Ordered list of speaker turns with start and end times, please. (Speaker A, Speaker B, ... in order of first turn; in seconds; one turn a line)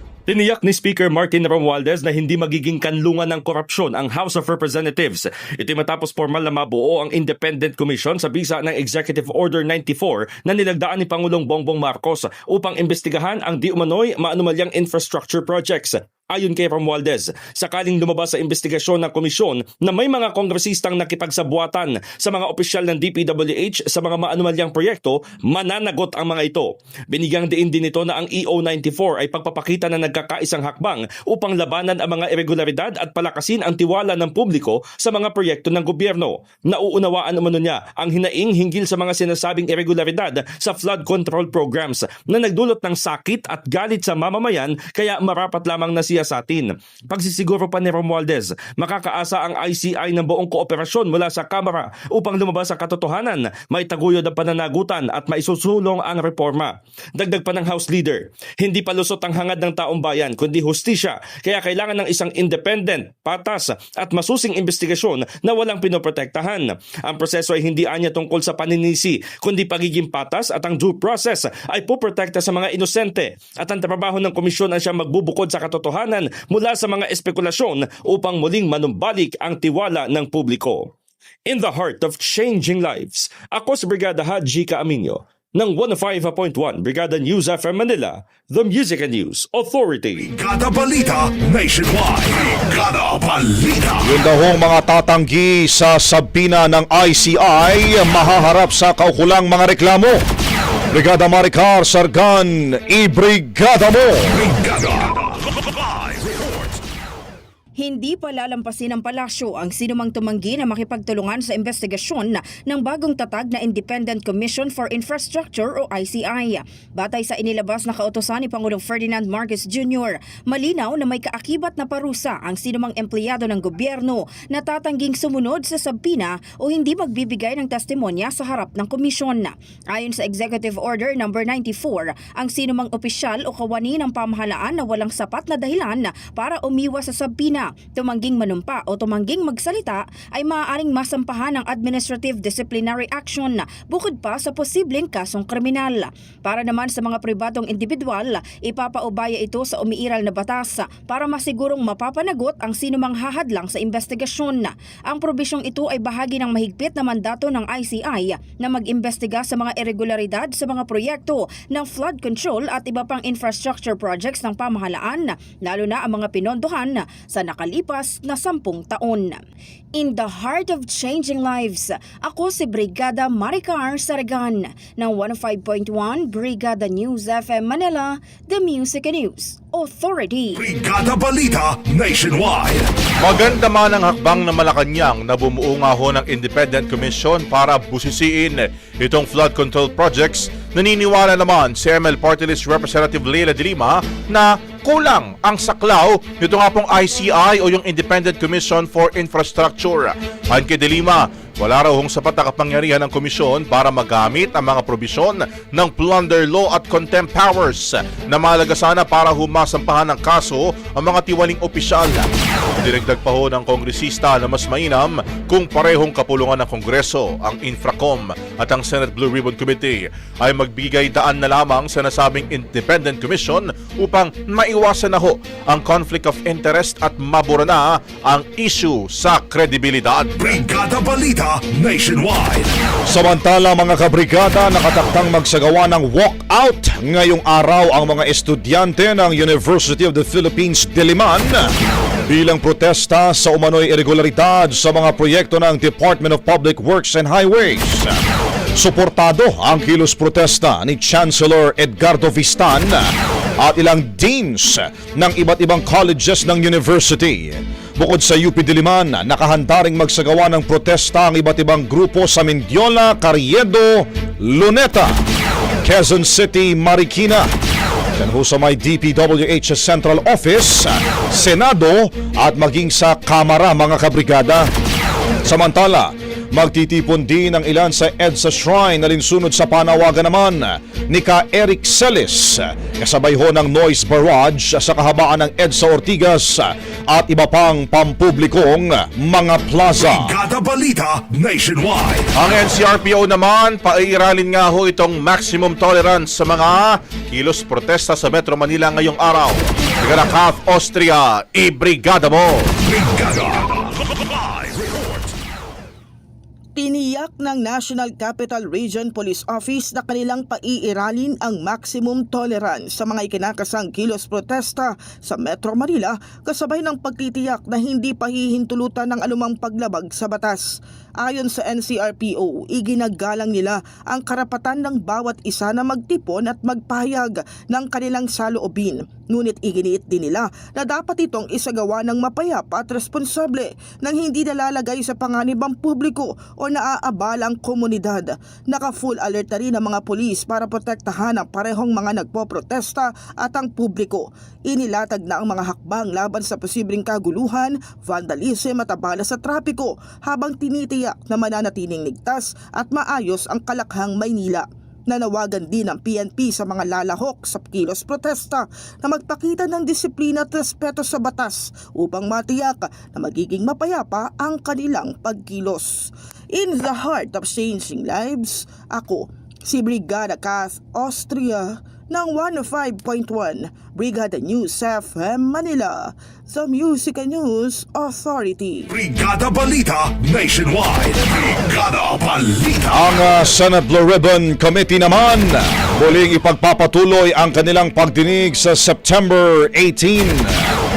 Speaker A: 0.3-80.9
Speaker A: 81.5-90.2
Speaker B: 90.2-94.1
Speaker C: 94.0-100.2
Speaker C: 100.9-104.3
Speaker B: 104.3-106.8
Speaker D: 107.8-169.4
Speaker D: 169.9-180.6
Speaker B: 180.6-182.9
Speaker E: 183.2-230.6
Speaker B: 230.3-232.7
Speaker C: 233.1-241.7
Speaker C: 242.3-248.2
Speaker C: 248.7-265.2
Speaker C: 265.8-267.5
Speaker C: 268.1-274.7
Speaker C: 275.4-290.3
Speaker B: 289.9-292.3
Speaker E: 292.3-302.7
Speaker B: 302.8-305.3
Speaker F: 306.8-378.9
Speaker B: 378.9-383.1
Speaker C: 382.9-390.6